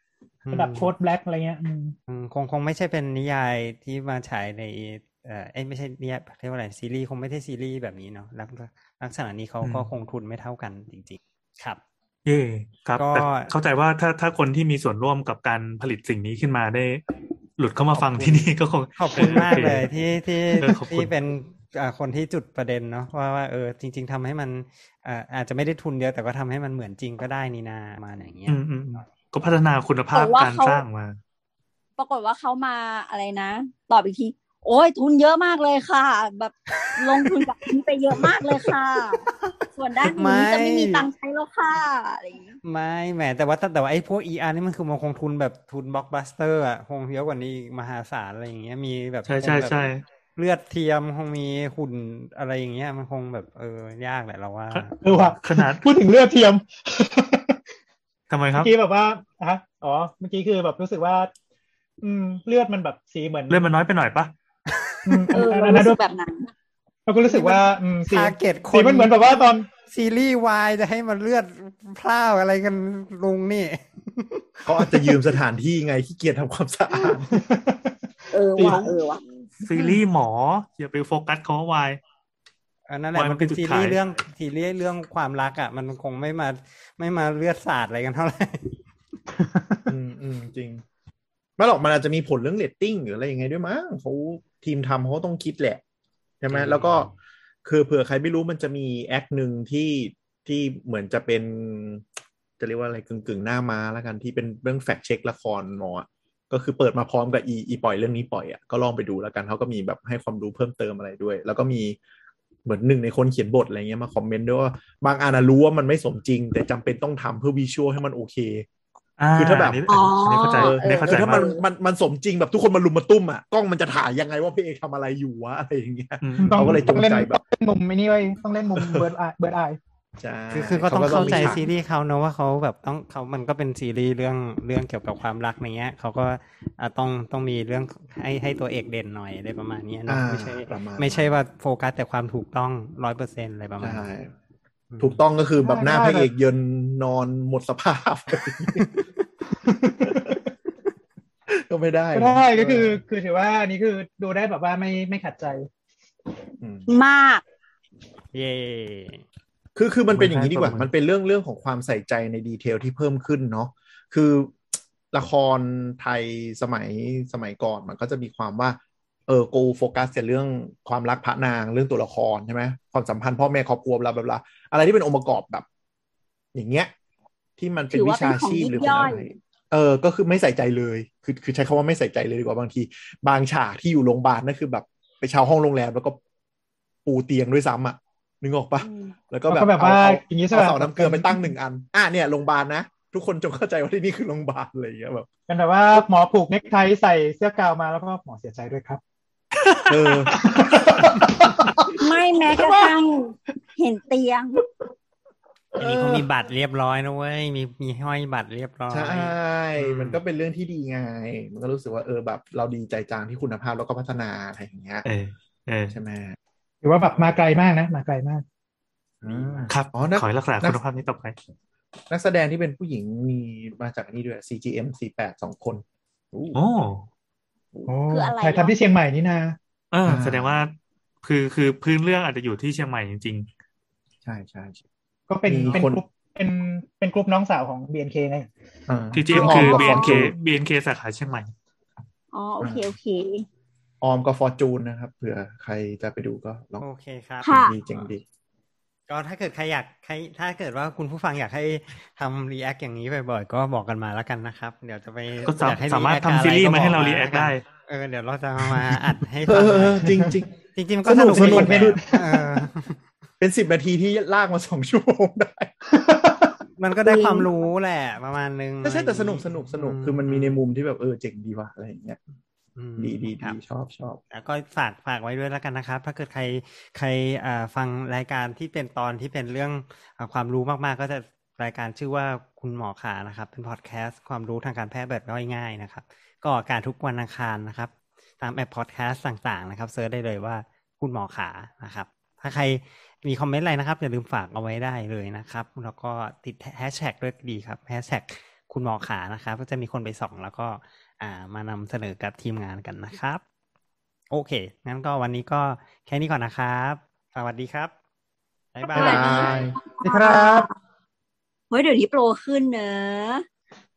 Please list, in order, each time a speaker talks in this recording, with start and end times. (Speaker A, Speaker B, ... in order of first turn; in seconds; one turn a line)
Speaker A: 0.5-0.9
Speaker B: 0.5-1.9
Speaker A: 2.1-11.8
Speaker C: 9.6-9.9
Speaker C: 12.3-17.0
Speaker A: 13.0-13.5
Speaker C: 17.6-19.9
Speaker A: 17.8-28.6
Speaker C: 20.6-21.1
Speaker C: 28.5-31.2
Speaker D: 30.1-30.8
Speaker D: 32.0-42.5
Speaker A: 40.0-41.1
Speaker A: 42.6-55.3
Speaker C: 49.3-50.0
Speaker B: 55.0-57.6
Speaker C: 55.4-55.9
Speaker C: 58.3-58.7
Speaker B: 58.6-61.3
Speaker B: 62.0-63.7
Speaker C: 63.5-64.3
Speaker B: 65.0-66.0
Speaker D: 65.3-66.5
Speaker B: 67.1-69.7
Speaker A: 67.3-67.6
Speaker A: 68.1-69.1
Speaker A: 69.9-74.5
Speaker E: 74.6-77.4
Speaker B: 77.3-77.9
Speaker D: 78.3-79.2
Speaker B: 78.5-78.9
Speaker C: 79.7-82.0
Speaker A: 82.9-88.8
Speaker C: 83.1-84.0
Speaker B: 89.4-89.8
Speaker E: 89.9-90.8
Speaker E: 91.6-95.8
Speaker E: 96.4-97.1
Speaker A: 96.5-97.1
Speaker E: 97.6-102.0
Speaker E: 102.6-112.0
Speaker E: 112.7-118.7
Speaker C: 119.2-121.5
Speaker E: 119.3-127.4
Speaker D: 119.9-121.6
Speaker C: 126.2-126.8
Speaker B: 126.4-129.8
Speaker E: 128.8-129.1
Speaker E: 130.2-131.6
Speaker A: 130.5-144.1
Speaker D: 131.1-131.6
Speaker E: 140.1-141.3
Speaker E: 143.8-144.3
Speaker A: 144.9-145.2
Speaker E: 145.0-148.9
Speaker B: 145.6-146.3
Speaker B: 149.6-150.2
Speaker E: 150.1-150.4
Speaker E: 151.5-153.0
Speaker B: 152.1-155.7
Speaker E: 156.6-156.9
Speaker D: 156.9-157.4
Speaker A: 158.3-159.2
Speaker E: 159.8-175.7
Speaker A: 160.1-160.9
Speaker E: 176.5-176.9
Speaker E: 177.6-186.2
Speaker D: 177.9-179.2
Speaker E: 187.1-195.3
Speaker D: 188.8-189.1
Speaker B: 189.5-191.5
Speaker B: 195.5-199.0
Speaker E: 199.9-200.8
Speaker B: 200.4-201.7
Speaker D: 202.0-204.6
Speaker A: 205.8-209.4
Speaker E: 205.9-206.2
Speaker E: 208.9-215.1
Speaker C: 209.8-210.2
Speaker C: 215.1-215.9
Speaker E: 215.9-216.4
Speaker B: 216.8-218.4
Speaker E: 219.2-220.8
Speaker C: 219.7-221.4
Speaker E: 222.1-226.6
Speaker C: 226.6-227.1
Speaker B: 227.9-229.6
Speaker D: 228.1-228.8
Speaker C: 229.9-233.5
Speaker E: 230.1-230.6
Speaker E: 234.2-234.8
Speaker B: 235.3-238.5
Speaker E: 235.5-236.0
Speaker E: 238.9-240.3
Speaker C: 239.1-241.5
Speaker D: 239.5-240.2
Speaker D: 242.3-243.4
Speaker E: 242.6-243.0
Speaker E: 244.0-246.8
Speaker A: 246.8-247.5
Speaker D: 247.4-247.8
Speaker E: 247.5-248.2
Speaker A: 249.1-260.1
Speaker C: 255.4-257.6
Speaker E: 259.5-260.5
Speaker B: 260.1-260.3
Speaker A: 260.8-263.0
Speaker E: 261.1-262.0
Speaker B: 261.3-262.4
Speaker E: 263.4-265.7
Speaker B: 265.9-266.5
Speaker A: 266.8-270.6
Speaker D: 267.1-267.5
Speaker E: 268.8-272.2
Speaker A: 272.8-273.6
Speaker E: 273.0-274.2
Speaker A: 274.3-303.4
Speaker A: 304.3-307.9
Speaker A: 308.8-309.7
Speaker D: 308.8-310.7
Speaker E: 308.9-309.8
Speaker B: 310.0-310.7
Speaker D: 311.7-313.4